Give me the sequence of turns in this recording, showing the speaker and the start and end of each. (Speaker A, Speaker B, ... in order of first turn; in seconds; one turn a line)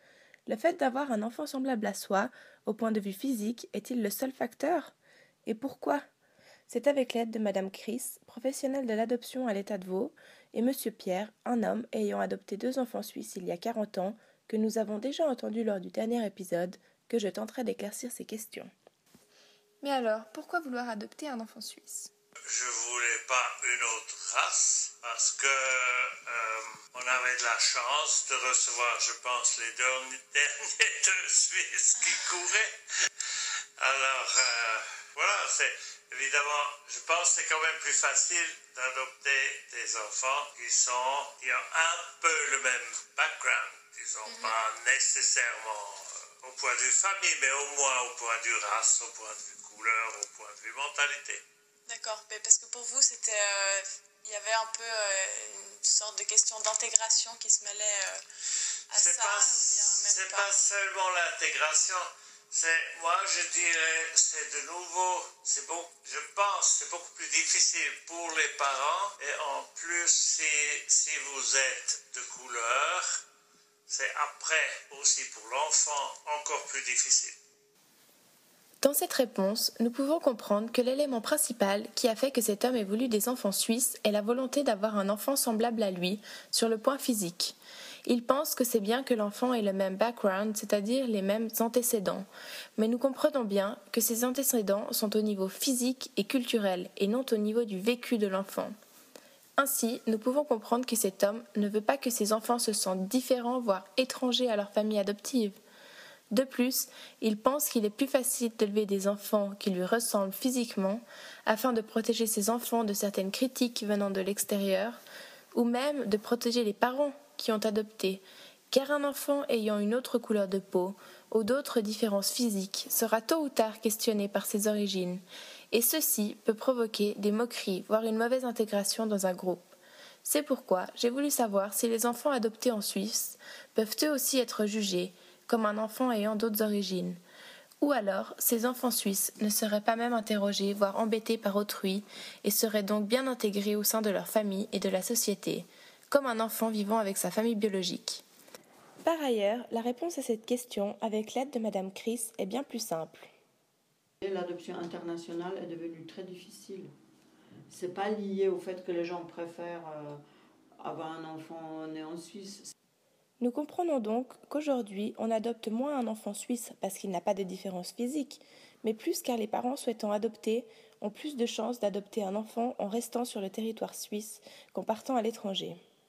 Speaker A: 0.5-4.9
Speaker A: 5.5-6.0
Speaker A: 6.7-18.7
Speaker A: 19.8-22.1
Speaker B: 22.5-32.7
Speaker C: 32.0-32.2
Speaker B: 33.8-51.4
Speaker C: 44.3-44.5
Speaker C: 51.9-58.2
Speaker C: 58.9-60.5
Speaker B: 58.9-73.2
Speaker B: 73.9-77.3
Speaker A: 78.8-98.7
Speaker A: 99.6-105.6
Speaker A: 106.3-115.0
Speaker A: 115.5-137.2
Speaker A: 137.8-148.2
Speaker A: 149.0-153.3
Speaker D: 154.2-156.9
Speaker D: 157.7-160.2
Speaker D: 160.8-162.7
Speaker A: 163.4-175.8